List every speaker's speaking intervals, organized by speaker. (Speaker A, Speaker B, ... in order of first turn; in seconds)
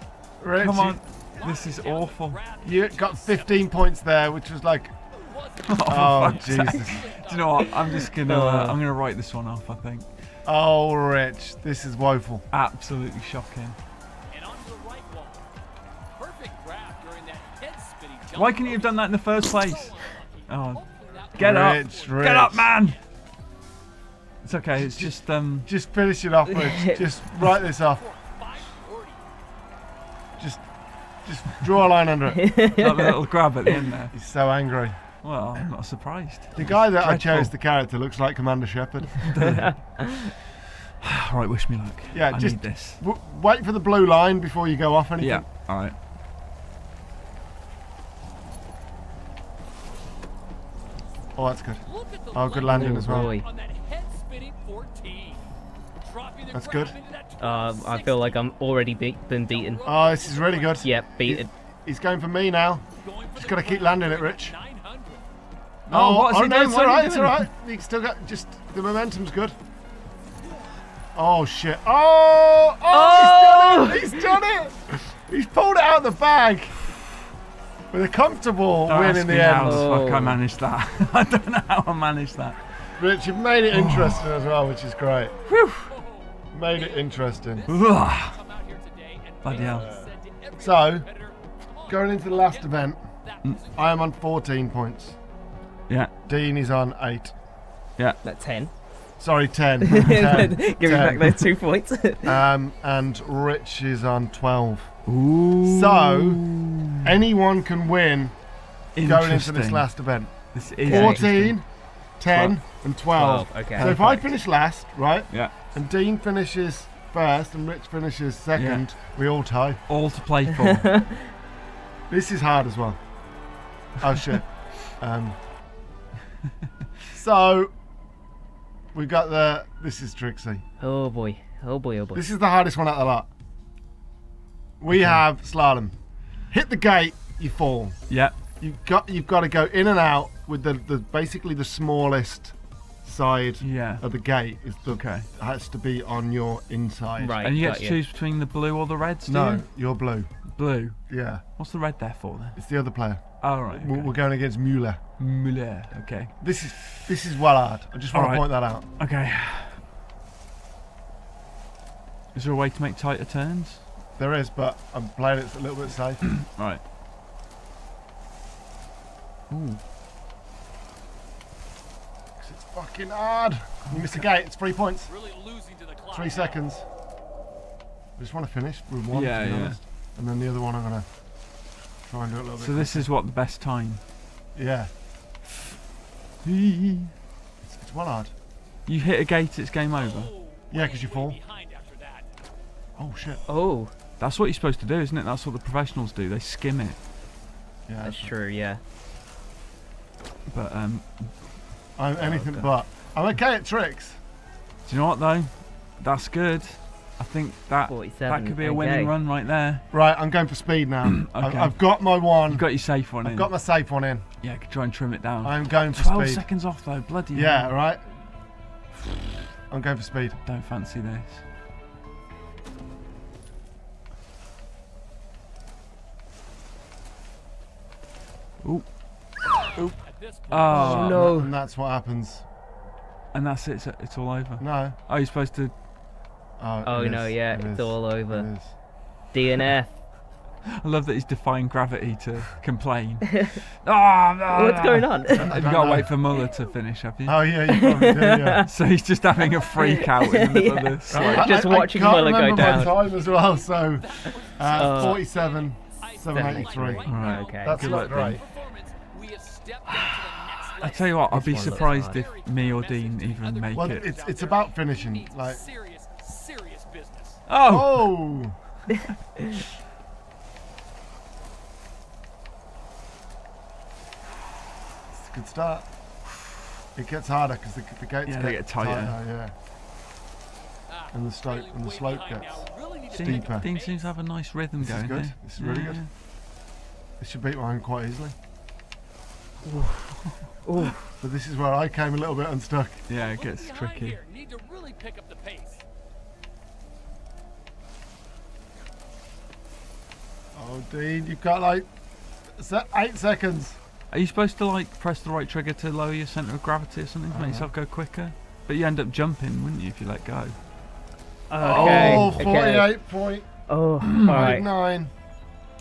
Speaker A: 0.4-1.0, 2.6-5.0, 5.9-7.1, 10.4-12.4, 21.4-22.7, 24.8-28.0, 30.4-32.6, 34.1-35.0, 36.5-39.4, 42.1-45.5, 51.4-53.3, 56.5-56.9, 59.8-64.5, 65.9-69.5, 71.1-76.8, 77.9-80.0, 83.0-85.4, 86.5-87.7, 90.5-91.1, 91.9-95.2, 96.2-97.4, 99.2-101.4, 102.2-105.0, 105.6-106.4, 107.0-108.3, 109.0-119.8, 122.1-123.0, 124.0-125.4, 127.1-127.7, 128.9-130.6, 132.1-133.3, 134.8-135.9, 136.5-138.0, 138.6-147.5, 149.2-150.4, 151.1-151.4, 152.6-155.0, 156.4-158.8, 164.2-166.3, 172.4-175.1, 176.1-176.8, 178.2-181.1, 182.0-183.1, 184.5-184.9, 187.7-188.3, 190.7-191.4, 193.0-193.4, 197.9-198.3, 201.9-204.2, 209.9-214.2, 215.4-216.5, 217.3-218.1, 219.7-220.4, 230.7-232.4, 234.6-235.0, 236.6-238.8, 245.4-246.1, 247.2-248.7, 251.1-258.4, 263.7-265.6, 267.7-268.5, 275.1-275.9, 276.9-279.5, 281.1-283.7, 284.8-286.0, 287.2-288.3, 291.2-293.0, 300.5-301.9, 302.5-303.8, 307.3-307.7, 311.6-313.5, 314.2-315.1
Speaker B: 0.6-2.4, 5.7-10.1, 12.5-13.8, 18.3-19.9, 20.5-23.0, 24.4-25.7, 32.8-34.1, 35.2-37.5, 39.3-40.0, 41.0-43.0, 45.2-46.0, 65.9-67.4, 78.8-82.6, 83.7-84.2, 85.5-85.9, 87.7-88.4, 89.4-90.0, 105.0-107.1, 108.9-109.9, 110.5-111.6, 112.3-112.5, 118.5-118.9, 119.9-121.1, 134.9-135.2, 138.1-138.3, 143.6-144.0, 144.9-145.3, 147.4-149.7, 150.5-152.6, 153.4-154.1, 155.2-156.3, 158.1-159.8, 162.3-163.8, 166.2-166.8, 169.5-169.8, 173.8-174.2, 179.1-179.8, 182.6-184.0, 186.4-187.1, 188.8-190.3, 194.2-197.0, 200.5-201.4, 204.8-209.8, 211.0-213.5, 214.4-217.7, 220.4-221.4, 228.6-228.9, 230.5-231.4, 233.3-235.7, 240.8-247.5, 248.6-251.5, 252.6-252.9, 257.0-258.4, 260.8-264.1, 267.5-268.1, 278.2-279.1, 283.1-286.1, 293.1-294.2, 304.1-310.5, 311.6-312.4, 314.0-314.6
Speaker C: 1.4-3.4, 5.2-7.8, 14.3-15.4, 16.1-19.1, 19.6-22.5, 27.5-29.2, 52.0-55.4, 56.0-58.4, 59.5-60.8, 63.0-65.2, 87.5-92.3, 175.1-176.6, 190.3-192.4, 229.8-231.1, 253.0-267.4, 281.5-284.1, 293.2-295.8
Speaker D: 8.2-8.8, 26.5-27.0, 32.4-33.7, 39.3-40.3, 52.7-53.5, 57.4-59.9, 60.8-61.5, 72.9-74.3, 79.6-80.4, 98.2-98.9, 99.9-102.4, 110.8-111.2, 113.1-114.3, 120.5-121.3, 130.8-132.2, 147.2-148.0, 193.5-193.9, 198.0-198.8, 202.2-202.7, 207.9-209.1, 230.7-231.5, 236.8-238.5, 239.3-240.0, 244.5-245.5, 247.7-248.7, 249.7-253.0, 254.7-255.2, 256.3-257.8, 259.9-260.1, 260.8-262.2, 289.6-291.0, 311.5-312.9, 313.7-314.7